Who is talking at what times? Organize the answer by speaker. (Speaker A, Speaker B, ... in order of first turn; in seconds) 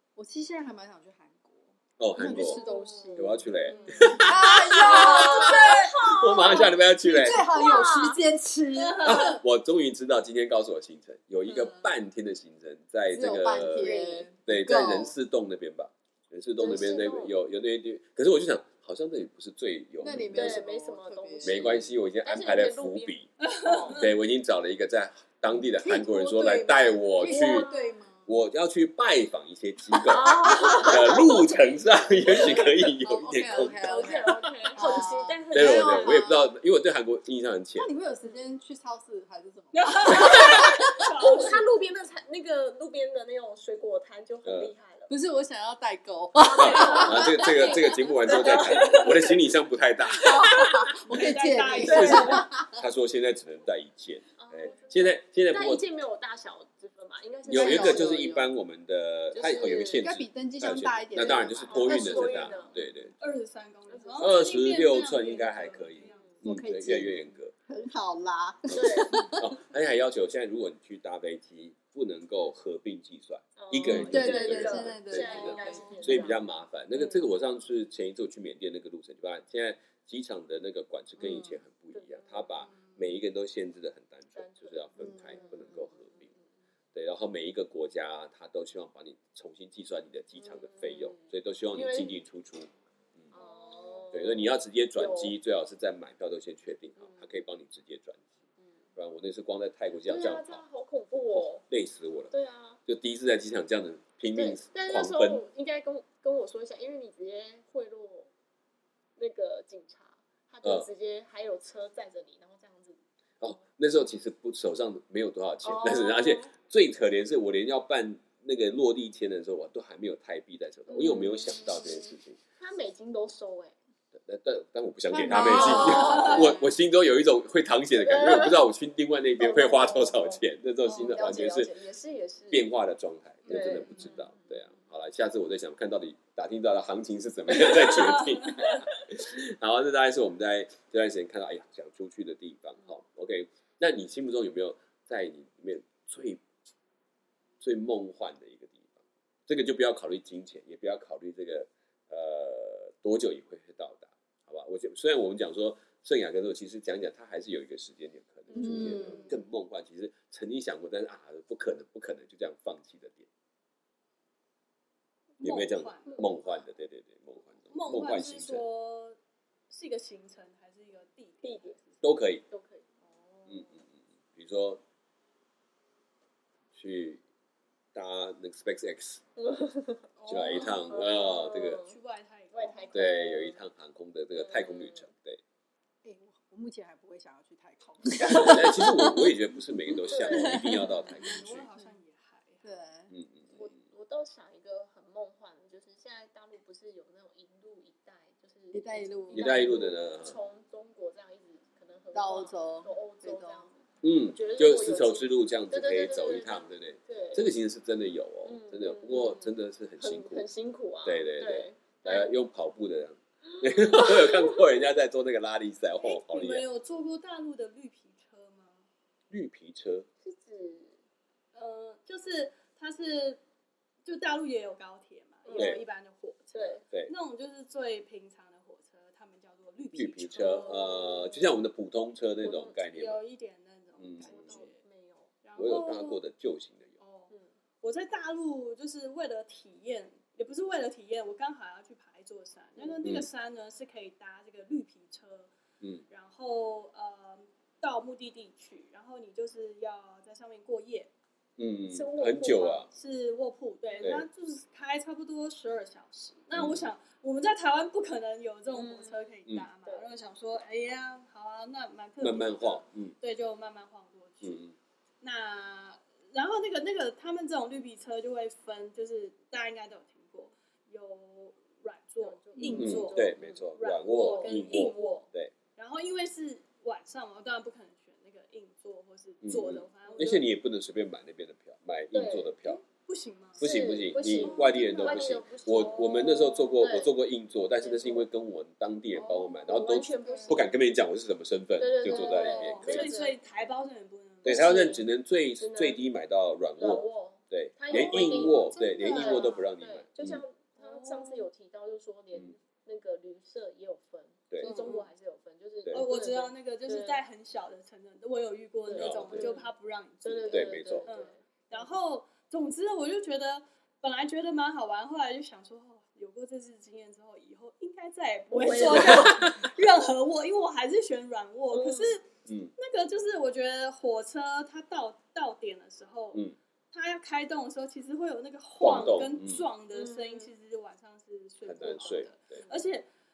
Speaker A: 0.1-9.4, 13.1-15.1, 20.0-21.8, 25.5-28.3, 30.1-31.2, 32.2-36.5, 37.8-40.9, 45.1-49.2, 50.1-52.8, 57.5-58.4, 60.0-62.6, 66.4-69.5, 73.9-76.3, 81.2-81.6, 85.0-85.4, 125.1-126.7, 158.6-159.3, 186.0-189.4, 189.9-191.3, 192.6-193.1, 198.7-199.8, 202.1-203.7
Speaker B: 2.0-2.6, 3.1-7.5, 9.0-20.6, 21.4-23.3, 23.8-27.7, 28.3-34.3, 35.5-37.9, 44.4-44.7, 46.5-50.7, 51.8-55.8, 57.5-63.1, 64.2-67.5, 68.7-86.3, 86.9-93.3, 94.1-98.2, 99.0-100.6, 101.3-102.3, 102.9-105.4, 113.4-122.4, 124.1-131.7, 132.5-146.4, 147.6-163.3, 165.4-168.6, 172.0-172.4, 173.5-173.8, 174.3-174.8, 176.7-177.2, 177.9-179.2, 180.3-181.8, 182.9-185.4, 188.2-191.7, 193.1-193.7, 199.3-200.3, 204.0-210.4, 211.0-216.7, 219.3-220.1, 225.5-225.8, 229.9-233.2, 234.0-234.6, 235.6-237.0, 251.6-252.9, 254.0-254.2, 256.5-256.9, 262.2-263.1, 264.4-264.7, 272.7-275.5, 279.4-282.8, 283.6-293.1, 294.4-300.4, 308.9-309.5, 310.5-311.1, 318.8-319.4, 322.5-322.7, 328.8-329.6, 331.6-332.6
Speaker C: 2.3-8.2, 11.5-11.7, 13.5-14.3, 16.6-17.4, 20.3-24.1, 27.2-28.0, 30.0-32.7, 33.5-36.4, 40.1-45.1, 46.5-49.0, 51.8-52.4, 54.4-58.4, 59.3-60.1, 61.2-62.8, 63.9-64.4, 66.0-66.4, 68.7-69.2, 73.5-76.4, 81.9-82.5, 84.3-86.4, 90.4-92.1, 93.3-95.3, 97.0-97.3, 98.6-98.8, 100.0-101.6, 102.3-102.8, 104.3-108.3, 109.2-113.0, 115.6-116.5, 120.9-123.8, 125.3-126.5, 127.9-128.6, 129.4-132.7, 133.5-134.7, 158.5-159.3, 171.4-171.8, 172.5-173.7, 179.4-181.9, 182.5-183.6, 184.3-185.1, 190.1-191.0, 193.5-207.4, 208.4-212.3, 213.5-214.6, 220.2-221.0, 225.4-225.8, 226.5-226.8, 230.3-231.0, 232.4-232.8, 234.2-235.3, 237.3-237.5, 242.8-243.0, 251.9-252.9, 258.7-259.3, 272.2-275.3, 280.1-280.3, 282.1-282.5, 283.6-287.1, 287.8-288.3, 289.7-290.7, 291.8-293.4, 294.4-295.1, 295.6-296.0, 296.8-307.2, 308.8-309.7, 310.2-311.9, 318.5-319.6, 321.7-322.2, 329.9-330.5, 332.0-332.9
Speaker D: 2.3-5.5, 8.8-9.4, 23.4-24.1, 39.7-41.6, 48.3-49.4, 50.9-52.4, 63.2-66.3, 75.7-76.1, 125.4-126.4, 130.9-131.2, 133.4-134.1, 138.0-138.8, 165.4-166.3, 167.7-169.2, 169.7-172.0, 180.2-183.0, 191.2-192.8, 216.0-218.9, 221.5-223.4, 224.0-231.4, 232.9-234.8, 235.4-236.2, 237.0-245.5, 246.1-251.1, 252.9-264.6, 265.2-275.2, 275.8-280.5, 282.6-283.6, 284.2-286.0, 289.1-290.6, 292.0-295.0, 297.9-299.6, 300.8-301.5, 304.6-305.1, 305.9-333.1